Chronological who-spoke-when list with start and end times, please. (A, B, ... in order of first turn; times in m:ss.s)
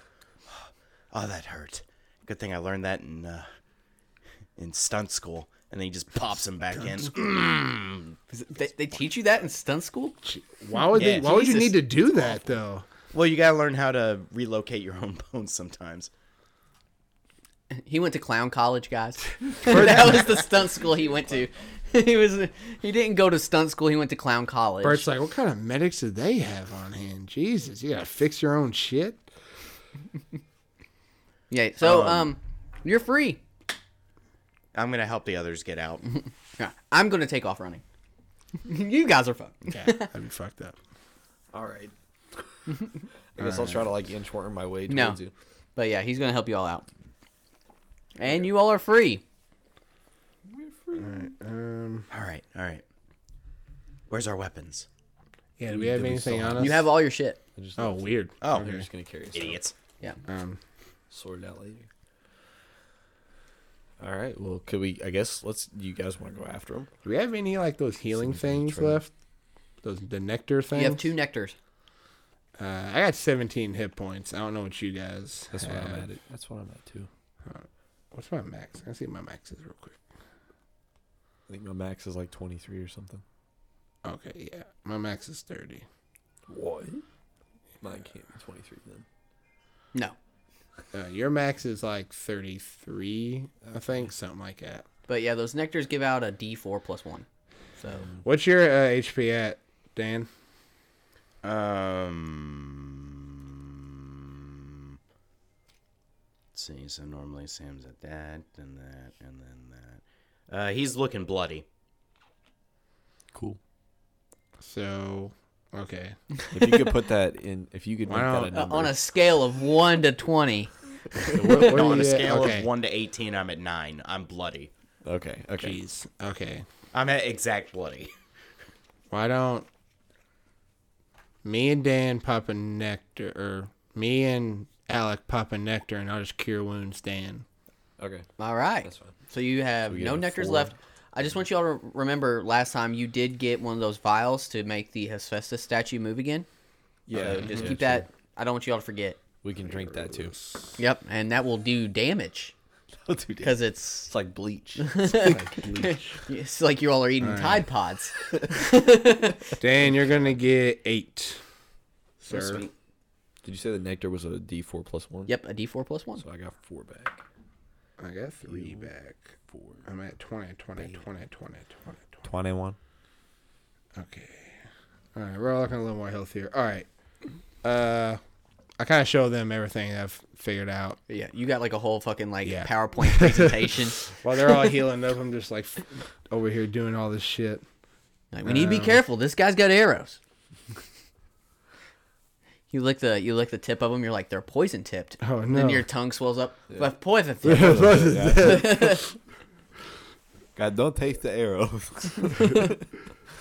0:00.5-0:03.4 A
0:04.6-0:08.1 A
0:06.7-0:07.1 B
0:08.3-0:10.2 C
0:10.2-0:12.8 B
0:10.9-0:11.4 A
0:11.0-0:11.7 C
0:13.1-0:16.1 A
0:17.7-0:25.0 C
0:19.5-0:20.4 B
0:24.8-0:29.2 B
0:31.5-0:33.4 C
0:31.8-0:32.2 B
0:34.7-0:36.0 A
0:36.6-0:37.8 C
0:38.6-0:40.1 C
0:39.7-0:40.7 B
0:41.5-0:41.9 D
0:43.3-0:45.3 D
0:44.9-0:45.2 C
0:45.8-0:46.9 C
0:48.2-0:49.2 C
0:50.5-0:51.3 D
0:50.9-0:52.1 B
0:52.1-0:52.8 A
0:54.1-0:54.9 A
0:55.6-0:56.9 B
0:55.7-0:56.8 D
0:56.6-0:57.4 C
0:57.6-0:59.6 D
0:57.8-0:58.8 B
0:58.4-0:58.7 A
0:59.3-0:59.7 A
1:00.2-1:00.6 B
1:01.1-1:01.9 D
1:04.0-1:06.9 D
1:07.0-1:09.1 B
1:08.1-1:09.0 D
1:09.8-1:11.1 B
1:10.7-1:11.5 C
1:12.6-1:16.0 B
1:15.5-1:17.1 D
1:17.4-1:20.0 B
1:21.5-1:23.2 D
1:24.0-1:25.8 B
1:26.5-1:27.0 D
1:27.8-1:29.0 D
1:30.9-1:34.8 B
1:35.1-1:37.2 C
1:37.8-1:38.1 C
1:38.2-1:40.3 B
1:41.4-1:44.5 A
1:46.5-1:51.6 A
1:53.3-1:53.6 D
1:54.6-1:56.2 B
1:56.5-1:59.0 D
1:58.1-1:58.6 B
1:58.5-2:01.8 C
2:01.3-2:02.7 B
2:01.5-2:04.7 A
2:05.0-2:05.8 D
2:05.6-2:06.6 B
2:06.9-2:08.1 A
2:09.1-2:09.7 B
2:11.4-2:17.4 B
2:18.0-2:18.3 D
2:18.4-2:26.5 C
2:18.8-2:19.1 D
2:19.9-2:20.7 D
2:27.1-2:28.0 D
2:27.1-2:27.8 B
2:27.2-2:29.2 C
2:29.4-2:30.4 D
2:29.7-2:30.7 B
2:30.8-2:32.5 C
2:33.0-2:36.0 D
2:33.4-2:34.1 C
2:34.8-2:39.5 C
2:35.2-2:36.1 B
2:37.2-2:37.6 B
2:39.6-2:41.4 B
2:42.2-2:42.6 B
2:42.3-2:42.7 A
2:43.4-2:45.3 D
2:45.3-2:46.2 C
2:46.2-2:47.2 D
2:48.0-2:49.3 B
2:48.5-2:48.9 D
2:49.5-2:49.8 D
2:49.8-2:52.2 B
2:52.2-2:52.8 D
2:53.9-2:54.6 B
2:55.1-2:56.9 B
2:57.6-2:58.2 B
2:58.8-3:01.0 B
3:01.1-3:04.0 C
3:02.4-3:07.6 B
3:08.3-3:10.2 C
3:08.4-3:09.0 B
3:12.7-3:19.0 C
3:15.2-3:15.8 B
3:17.4-3:18.8 D
3:17.4-3:19.1 B
3:20.6-3:22.8 D